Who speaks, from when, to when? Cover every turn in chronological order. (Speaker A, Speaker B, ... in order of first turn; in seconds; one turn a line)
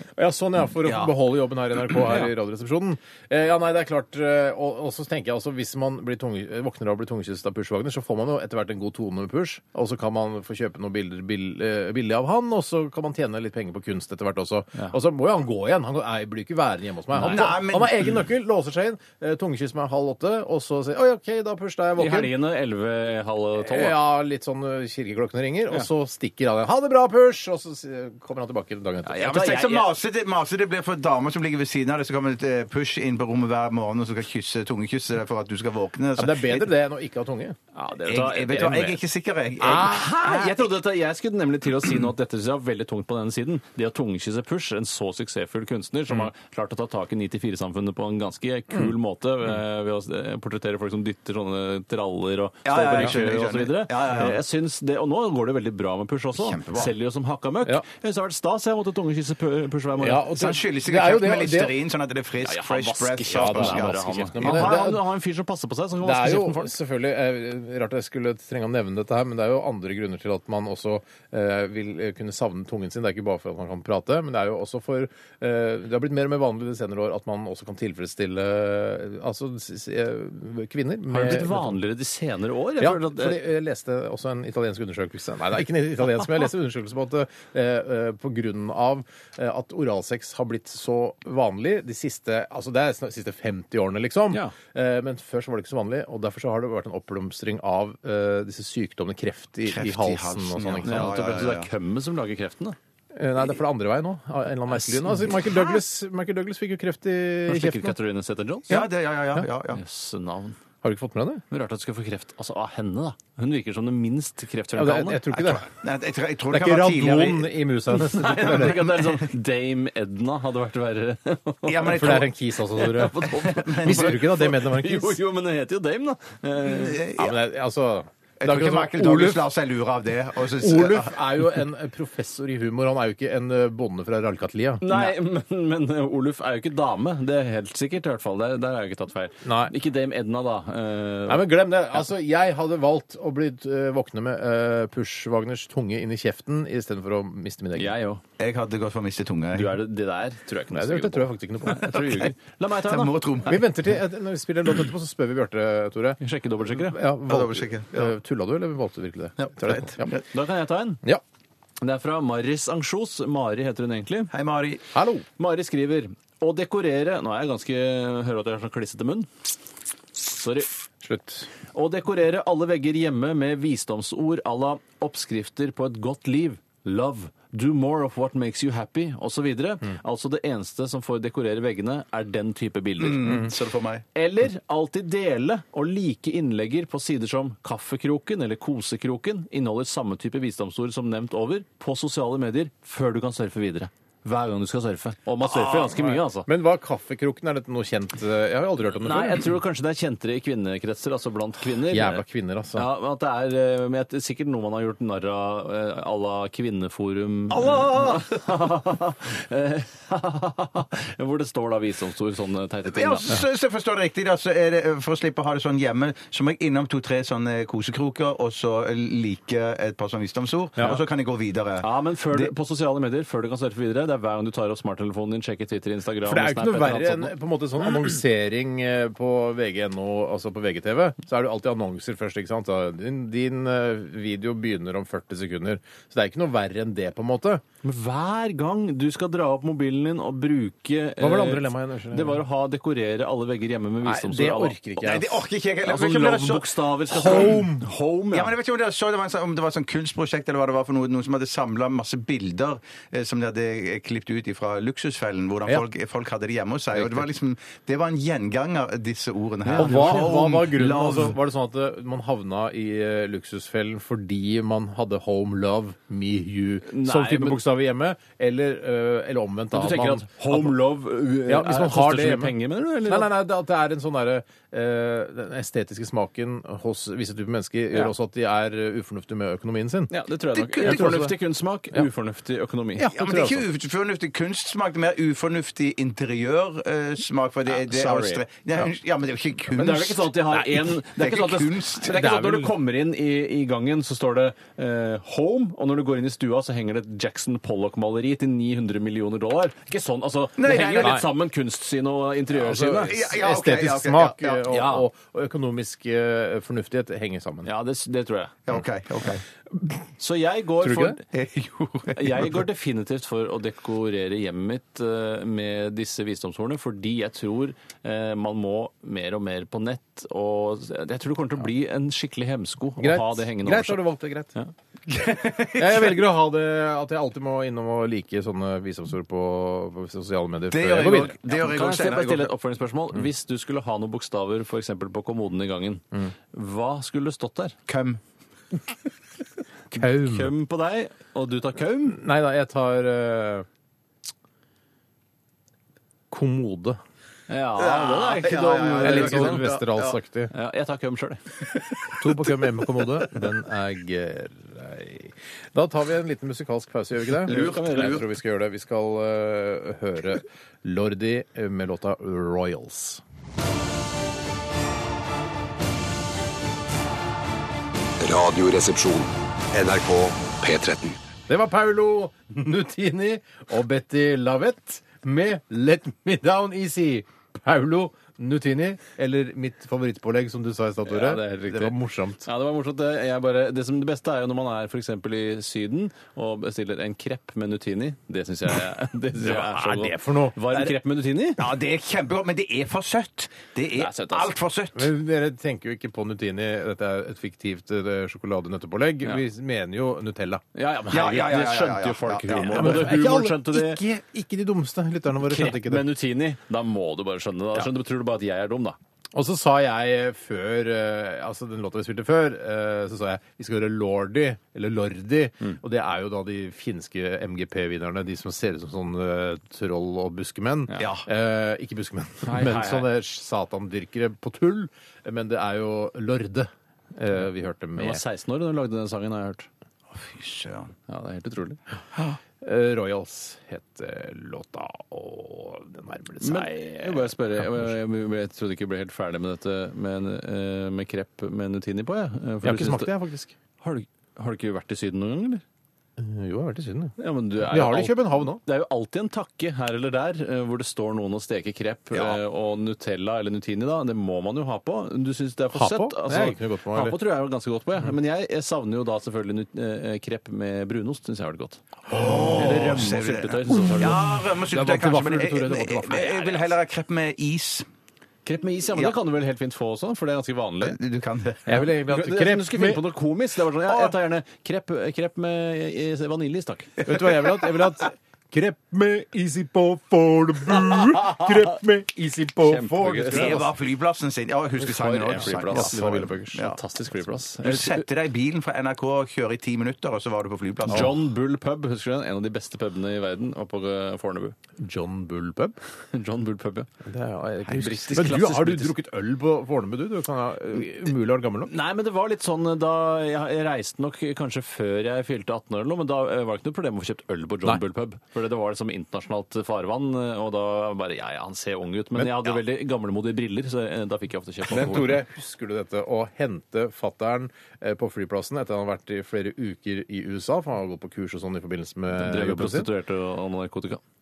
Speaker A: 0.2-22.3
Speaker B: 0.8-1.1
Speaker C: 17.2-17.5
Speaker B: 17.2-18.1
Speaker C: 22.0-24.0
Speaker A: 23.6-29.4
Speaker C: 29.0-29.9
Speaker B: 29.2-36.7
Speaker A: 36.1-37.6
Speaker C: 37.7-39.0
Speaker B: 38.1-40.3
Speaker A: 38.5-38.9
Speaker A: 39.6-40.5
Speaker C: 39.6-60.2
Speaker B: 52.6-54.4
Speaker B: 56.4-56.9
Speaker A: 60.0-61.7
Speaker B: 60.3-64.9
Speaker C: 62.4-66.7
Speaker A: 63.3-65.0
Speaker A: 66.0-81.8
Speaker C: 81.1-83.4
Speaker A: 82.8-101.2
Speaker B: 99.7-101.7
Speaker C: 100.8-102.8
Speaker A: 103.1-108.0
Speaker C: 104.8-105.6
Speaker C: 107.5-108.8
Speaker B: 108.7-109.8
Speaker A: 108.7-109.5
Speaker C: 109.7-110.6
Speaker A: 110.8-111.4
Speaker C: 111.5-115.2
Speaker A: 114.7-115.7
Speaker B: 115.3-117.5
Speaker A: 116.5-119.0
Speaker C: 118.0-122.2
Speaker B: 118.6-119.1
Speaker B: 121.7-122.3
Speaker A: 121.8-125.2
Speaker C: 122.8-127.0
Speaker B: 123.4-124.3
Speaker B: 126.7-127.3
Speaker A: 127.2-129.5
Speaker B: 128.4-131.4
Speaker A: 130.5-135.1
Speaker C: 134.8-141.6
Speaker A: 139.4-139.7
Speaker A: 141.3-147.9
Speaker C: 147.8-148.2
Speaker B: 148.4-149.8
Speaker C: 149.5-153.2
Speaker A: 150.7-152.3
Speaker B: 152.8-153.7
Speaker A: 153.4-156.2
Speaker C: 156.2-157.0
Speaker A: 156.7-160.0
Speaker B: 157.3-158.1
Speaker B: 159.4-160.2
Speaker C: 160.3-161.0
Speaker C: 161.8-164.3
Speaker B: 164.3-164.8
Speaker A: 164.9-165.2
Speaker C: 165.4-169.3
Speaker C: 170.2-170.7
Speaker A: 171.0-171.5
Speaker C: 171.7-183.5
Speaker B: 183.0-184.0
Speaker C: 184.1-196.5
Speaker A: 195.5-199.5
Speaker C: 199.0-213.3
Speaker A: 201.8-202.8
Speaker A: 207.5-208.2
Speaker B: 212.9-222.5
Speaker C: 221.8-227.3
Speaker A: 226.2-237.6
Speaker C: 237.8-244.8
Speaker A: 241.2-242.4
Speaker A: 244.0-245.4
Speaker B: 245.0-246.7
Speaker C: 245.8-248.5
Speaker A: 247.1-247.8
Speaker B: 247.2-247.6
Speaker B: 248.3-261.4
Speaker C: 256.9-257.2
Speaker C: 259.6-260.3
Speaker A: 259.7-270.8
Speaker C: 266.9-267.6
Speaker C: 269.7-273.3
Speaker A: 271.4-280.1
Speaker C: 280.1-283.1
Speaker B: 280.5-281.1
Speaker A: 280.8-281.4
Speaker A: 282.9-283.7
Speaker B: 283.1-292.1
Speaker C: 287.6-288.4
Speaker C: 289.7-303.2
Speaker A: 292.1-292.7
Speaker B: 300.6-301.2
Speaker A: 300.9-301.2
Speaker A: 302.5-307.7
Speaker B: 303.1-305.0
Speaker C: 307.6-308.5
Speaker B: 308.7-309.4
Speaker C: 310.2-311.2
Speaker A: 310.8-311.2
Speaker B: 311.3-312.6
Speaker C: 312.1-324.7
Speaker A: 323.0-324.5
Speaker B: 325.1-326.2
Speaker A: 325.7-331.4
Speaker B: 330.7-332.5
Speaker C: 331.4-337.8
Speaker B: 337.9-338.2
Speaker C: 339.9-342.2
Speaker A: 339.9-340.5
Speaker A: 342.0-343.6
Speaker A: 346.3-347.0
Speaker C: 347.5-349.7
Speaker B: 347.8-350.2
Speaker A: 349.0-350.5
Speaker C: 350.5-351.4
Speaker B: 351.7-353.3
Speaker A: 352.2-363.2
Speaker C: 357.4-358.2
Speaker B: 357.4-358.3
Speaker D: 368.2-371.2
Speaker A: 371.5-382.5
Speaker C: 381.0-381.9
Speaker C: 382.4-391.6
Speaker A: 389.3-390.6
Speaker B: 391.6-395.1
Speaker C: 394.0-394.5
Speaker A: 394.9-400.6
Speaker C: 400.7-404.0
Speaker B: 401.1-403.1
Speaker A: 402.7-406.1
Speaker C: 405.4-409.0
Speaker A: 409.3-428.2
Speaker B: 421.0-421.2
Speaker C: 422.4-423.1
Speaker C: 427.9-429.7
Speaker B: 430.1-430.9
Speaker C: 431.1-431.8
Speaker A: 432.6-437.9
Speaker C: 436.4-443.1
Speaker A: 442.6-443.5
Speaker C: 443.8-445.6
Speaker A: 446.2-448.6
Speaker C: 447.2-464.2
Speaker A: 455.7-457.2
Speaker B: 462.1-467.9
Speaker A: 464.7-466.6
Speaker C: 468.4-471.0
Speaker B: 470.8-471.8
Speaker A: 471.7-473.0
Speaker C: 471.7-477.0
Speaker A: 477.1-483.7
Speaker C: 482.6-483.6
Speaker B: 483.3-486.8
Speaker A: 484.8-486.7
Speaker C: 484.9-488.0
Speaker B: 487.6-491.1
Speaker C: 490.9-494.6
Speaker A: 494.8-495.8
Speaker C: 496.1-496.9
Speaker A: 497.0-501.7
Speaker C: 497.7-498.9
Speaker B: 497.8-498.4
Speaker C: 501.7-515.2
Speaker A: 512.1-512.6
Speaker A: 514.6-522.9
Speaker C: 522.1-524.0